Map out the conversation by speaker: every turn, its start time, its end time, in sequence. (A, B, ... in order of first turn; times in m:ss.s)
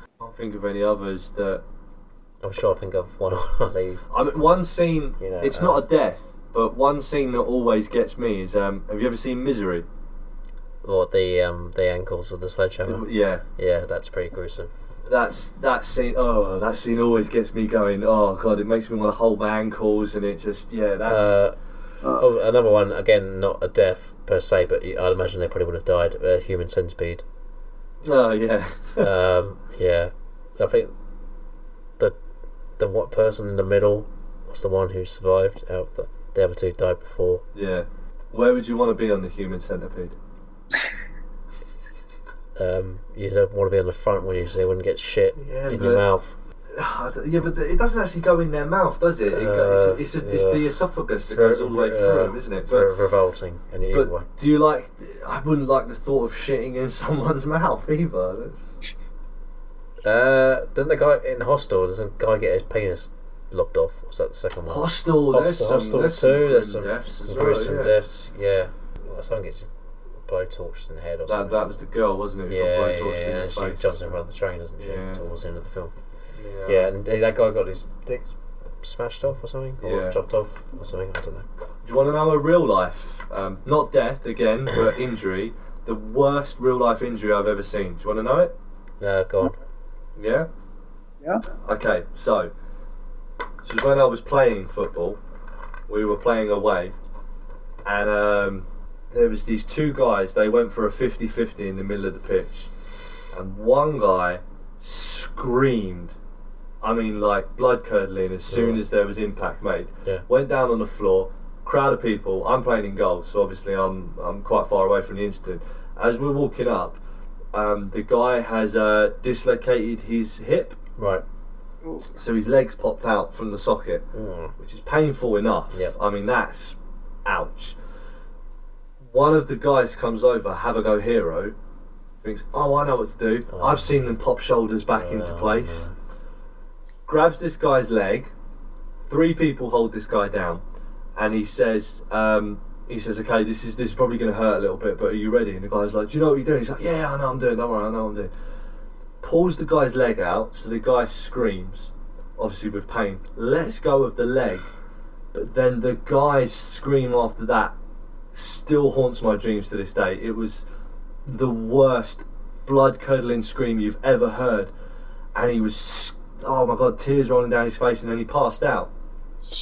0:00.2-0:01.6 A
0:02.4-0:04.1 B
0:04.1-0:09.9 A
0:05.2-0:05.9 B
0:10.8-0:14.7 B
0:12.8-0:13.4 A
0:15.0-0:21.4 A
0:21.1-0:21.6 B
0:22.1-0:27.2 B
0:28.0-0:29.1 A
0:29.0-0:30.9 B
0:32.8-0:37.4 B
0:37.5-0:40.2 A
0:42.6-0:46.4 B
0:45.4-0:46.0 A
0:46.7-0:52.9 A
0:49.3-0:54.3 B
0:53.9-0:58.8 A
1:00.0-1:09.7 B
1:04.7-1:08.0 A
1:10.2-1:11.6 B
1:11.3-1:14.0 A
1:12.5-1:15.9 B
1:14.8-1:15.2 A
1:16.4-1:16.9 A
1:16.7-1:18.3 B
1:18.8-1:21.5 B
1:19.8-1:20.2 A
1:21.8-1:28.5 A
1:29.0-1:29.6 B
1:30.2-1:30.5 A
1:31.6-1:32.5 A
1:33.6-1:35.2 A
1:35.9-1:37.0 A
1:37.8-1:42.7 A
1:43.3-1:46.2 A
1:46.8-1:57.0 A
1:48.5-1:48.8 B
1:57.5-2:00.8 A
2:01.0-2:01.2 B
2:02.1-2:04.0 A
2:04.1-2:04.5 B
2:04.6-2:07.8 A
2:09.0-2:11.6 A
2:12.2-2:15.9 A
2:13.5-2:14.0 B
2:14.9-2:15.9 B
2:17.1-2:18.3 A
2:19.0-2:20.6 A
2:21.2-2:28.3 A
2:29.2-2:34.7 A
2:35.3-2:37.8 A
2:38.3-2:40.6 A
2:41.2-2:44.7 A
2:45.4-2:48.9 A